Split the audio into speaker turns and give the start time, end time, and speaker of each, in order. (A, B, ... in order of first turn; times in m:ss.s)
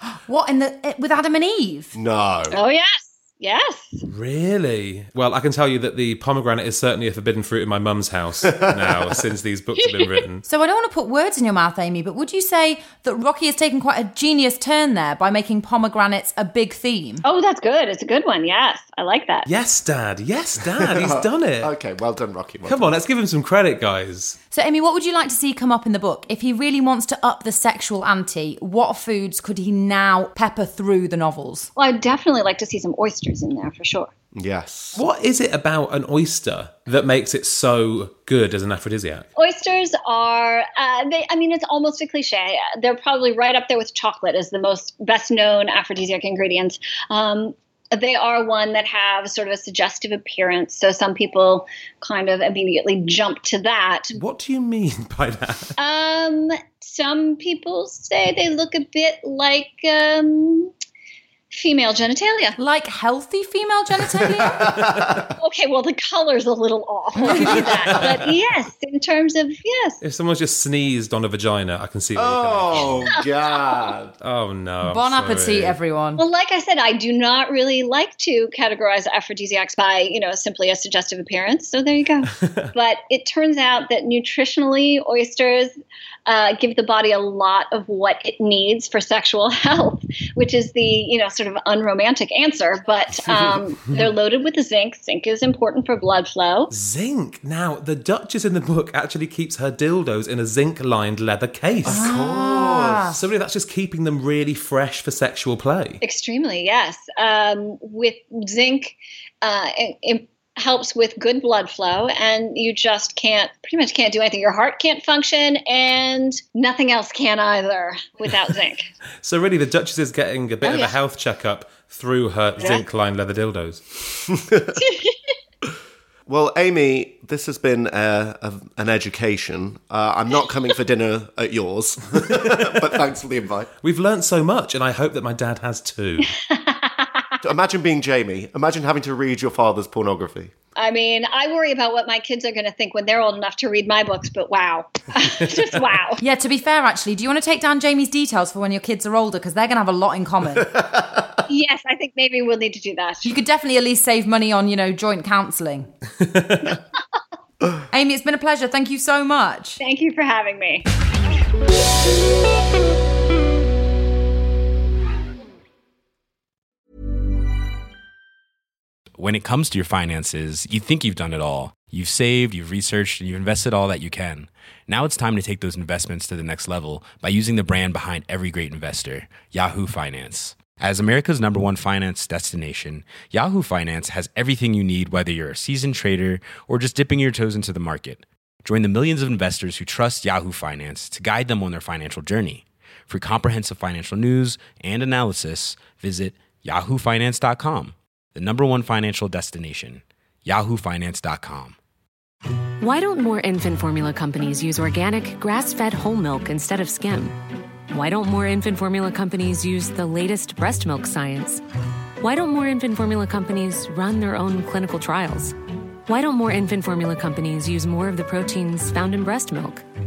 0:00.2-0:02.0 A
0:01.9-0:02.6 B
0:02.5-0:04.0 C
0:04.0-0:10.4 D
0:10.4-0:17.2 A
0:17.2-0:19.5 C
0:19.4-0:21.7 D
0:20.8-0:22.9 B
0:22.6-0:24.4 D
0:24.5-0:31.7 A
0:31.8-0:34.1 C
0:34.3-0:35.0 B
0:34.9-0:39.3 D
0:39.3-0:54.2 C
0:54.1-0:55.7 D
0:55.8-1:00.7 C
1:01.5-1:02.6 C
1:02.6-1:04.7 A
1:04.6-1:05.1 D
1:04.7-1:05.2 B
1:05.4-1:10.0 C
1:07.1-1:07.6 A
1:07.3-1:08.3 D
1:10.0-1:13.1 D
1:12.2-1:14.1 B
1:14.2-1:15.8 D
1:14.8-1:16.2 A
1:16.2-1:25.7 C
1:26.2-1:36.7 C
1:36.7-1:42.0 D
1:41.8-1:43.0 B
1:41.9-1:43.2 A
1:43.1-1:46.0 D
1:46.0-1:58.8 C
1:59.2-2:04.2 D
2:00.6-2:00.9 C
2:04.8-2:05.1 C
2:06.3-2:13.7 B
2:12.2-2:12.8 D
2:13.8-2:16.3 D
2:16.4-2:17.2 C
2:17.4-2:20.5 B
2:20.8-2:26.2 C
2:26.2-2:30.7 A
2:30.8-2:31.2 B
2:31.5-2:33.3 C
2:33.2-2:35.9 A
2:36.3-2:36.8 D
2:37.9-2:39.8 A
2:39.8-2:40.9 C
2:49.2-3:21.8 E
3:22.8-3:27.4 F
3:27.9-3:31.6 F
3:32.2-3:35.5 F
3:36.1-3:39.8 F